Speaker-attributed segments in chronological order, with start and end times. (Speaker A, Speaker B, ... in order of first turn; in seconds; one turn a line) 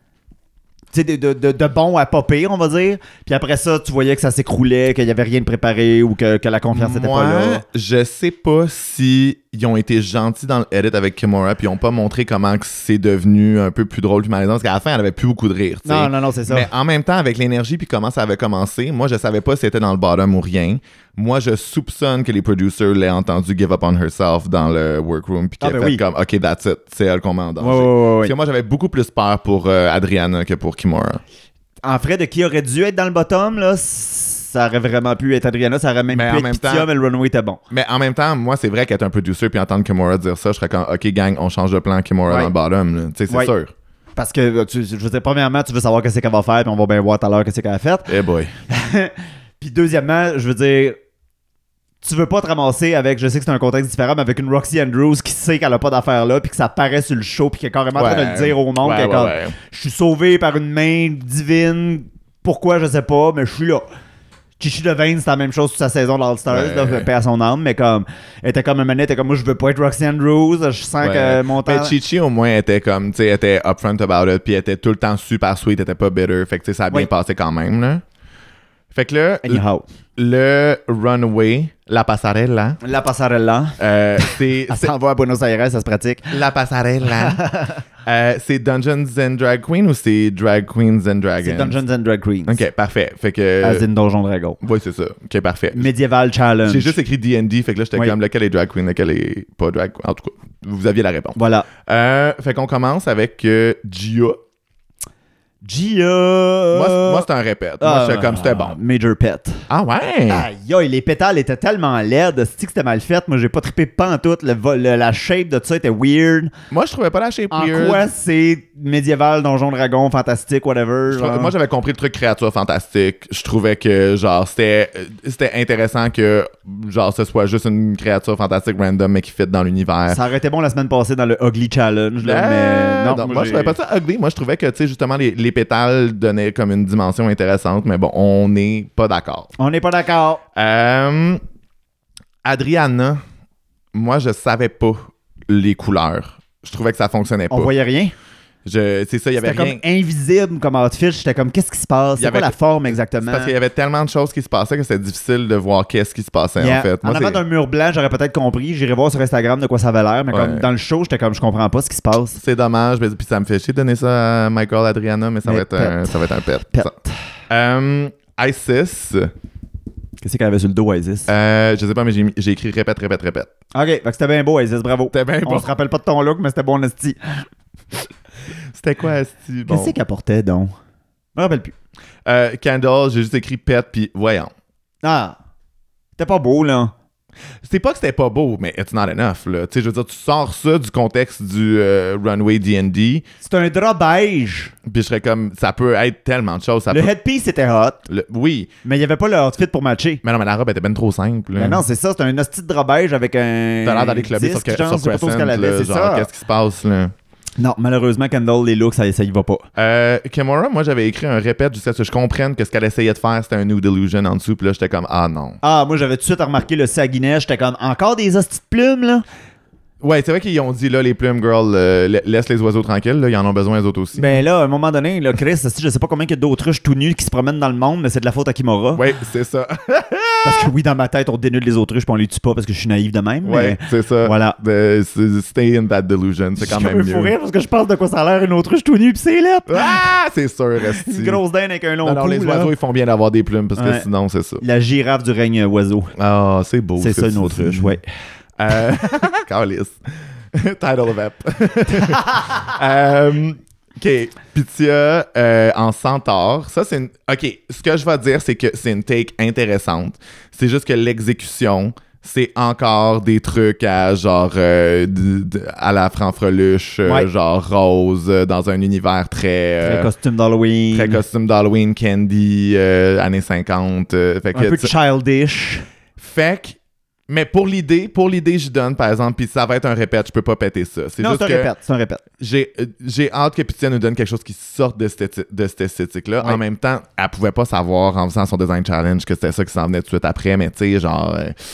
Speaker A: 0.9-7.6
Speaker B: 6.7-31.2
Speaker A: 15.8-16.7
Speaker A: 25.6-26.0
Speaker A: 27.6-28.3
Speaker A: 31.8-37.6
Speaker B: 36.1-36.9
Speaker B: 37.7-43.7
Speaker A: 44.1-48.1
Speaker B: 48.1-48.5
Speaker A: 48.7-51.0
Speaker A: 52.0-63.8
Speaker B: 57.9-59.5
Speaker A: 64.6-71.9
Speaker B: 66.5-67.1
Speaker B: 71.0-78.0
Speaker B: 78.9-79.6
Speaker A: 79.4-79.8
Speaker B: 80.2-82.8
Speaker A: 82.8-86.3
Speaker B: 83.8-84.9
Speaker B: 86.3-87.4
Speaker A: 87.0-87.8
Speaker B: 88.0-91.8
Speaker A: 91.4-92.6
Speaker B: 92.5-93.8
Speaker A: 93.6-94.6
Speaker B: 94.6-95.9
Speaker A: 95.7-97.0
Speaker B: 96.7-104.4
Speaker A: 101.3-101.7
Speaker A: 105.6-107.3
Speaker B: 106.7-108.8
Speaker A: 107.8-109.6
Speaker B: 109.7-110.5
Speaker A: 110.3-116.5
Speaker B: 116.7-118.1
Speaker A: 117.5-121.5
Speaker B: 121.1-130.2
Speaker A: 130.1-133.8
Speaker B: 132.2-139.5
Speaker A: 139.6-140.4
Speaker B: 140.5-141.4
Speaker B: 142.4-143.2
Speaker B: 143.9-147.7
Speaker A: 147.5-148.1
Speaker B: 148.6-149.8
Speaker A: 149.4-153.5
Speaker B: 152.2-152.5
Speaker B: 153.2-157.4
Speaker A: 156.6-162.4
Speaker B: 160.3-160.7
Speaker B: 162.4-166.9
Speaker A: 165.4-167.1
Speaker B: 167.5-169.3
Speaker A: 170.2-171.3
Speaker B: 171.3-173.5
Speaker A: 173.7-177.4
Speaker B: 175.1-175.7
Speaker B: 178.7-180.0
Speaker A: 179.7-180.7
Speaker A: 181.3-181.7
Speaker B: 182.2-184.5
Speaker A: 185.0-185.3
Speaker A: 186.2-186.9
Speaker B: 187.6-193.2
Speaker A: 193.4-194.7
Speaker B: 194.8-197.1
Speaker A: 196.9-198.0
Speaker B: 198.1-198.7
Speaker A: 198.8-200.2
Speaker B: 200.2-201.8
Speaker A: 201.5-206.3
Speaker B: 203.8-207.1
Speaker A: 207.6-209.7
Speaker B: 209.8-215.6
Speaker A: 215.6-219.2
Speaker B: 220.0-224.3
Speaker A: 224.2-229.0
Speaker B: 228.9-230.7
Speaker A: 230.4-234.6
Speaker B: 233.4-237.3
Speaker A: 236.6-240.0
Speaker B: 239.7-241.4
Speaker A: 240.9-242.7
Speaker B: 242.0-244.6
Speaker A: 243.8-244.1
Speaker A: 244.6-246.1
Speaker B: 246.2-248.0
Speaker A: 247.0-248.0
Speaker B: 248.6-250.0
Speaker B: 250.5-270.1
Speaker A: 269.8-271.2
Speaker B: 270.9-274.9
Speaker A: 274.5-275.8
Speaker B: 276.2-276.8
Speaker B: 277.3-281.7
Speaker A: 281.2-282.2
Speaker B: 282.4-291.6